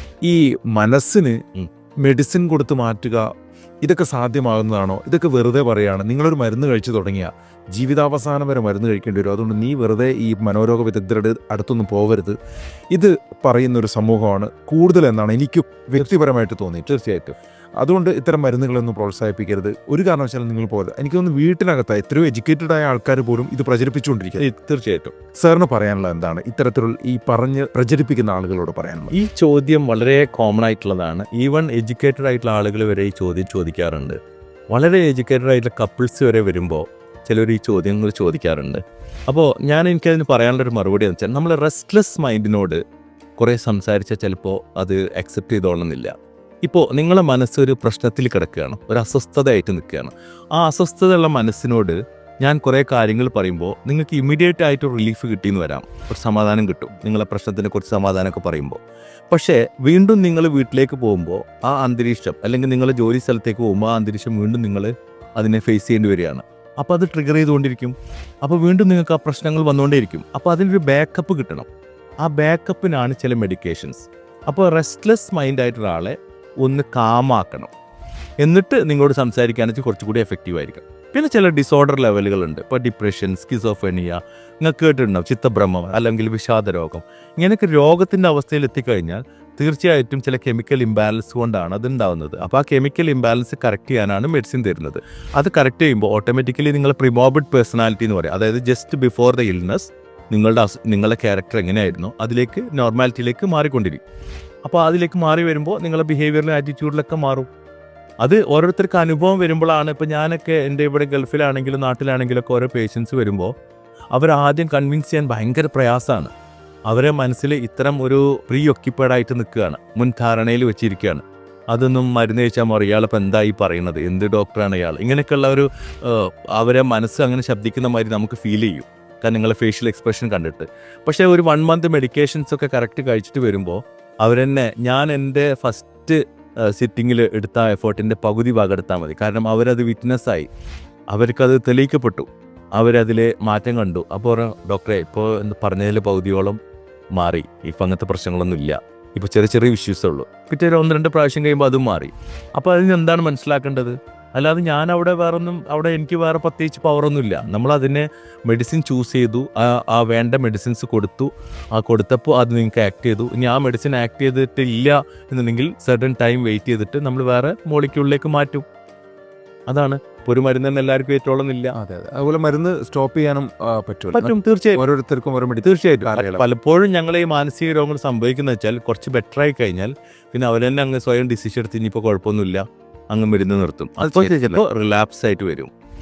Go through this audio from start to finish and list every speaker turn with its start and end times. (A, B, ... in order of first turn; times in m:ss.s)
0:00.2-0:01.4 A
0:02.0-0:03.2 A
0:03.8-0:12.4 A
0:12.9-0:16.9 A
0:16.9-0:17.4 B
0:17.8-0:24.4 A
0:24.4-0:25.1 B
0:25.4-0:29.1 A
0:29.1-0:34.2 B
0:34.7-0:42.8 B
0:43.4-0:46.1 B
0:46.6-0:58.8 B
0:59.3-1:11.7 B
1:12.2-1:17.7 B
1:18.4-1:44.0 B
1:44.6-1:47.5 B
1:48.2-1:53.5 B
1:54.1-1:56.3 B
1:56.9-2:20.5 B
2:21.1-2:26.6 B
2:27.2-2:48.6 B
2:49.7-2:51.7 B
2:51.7-2:56.4 A
2:54.1-2:54.8 B
2:55.6-3:05.7 B
3:04.1-3:04.6 A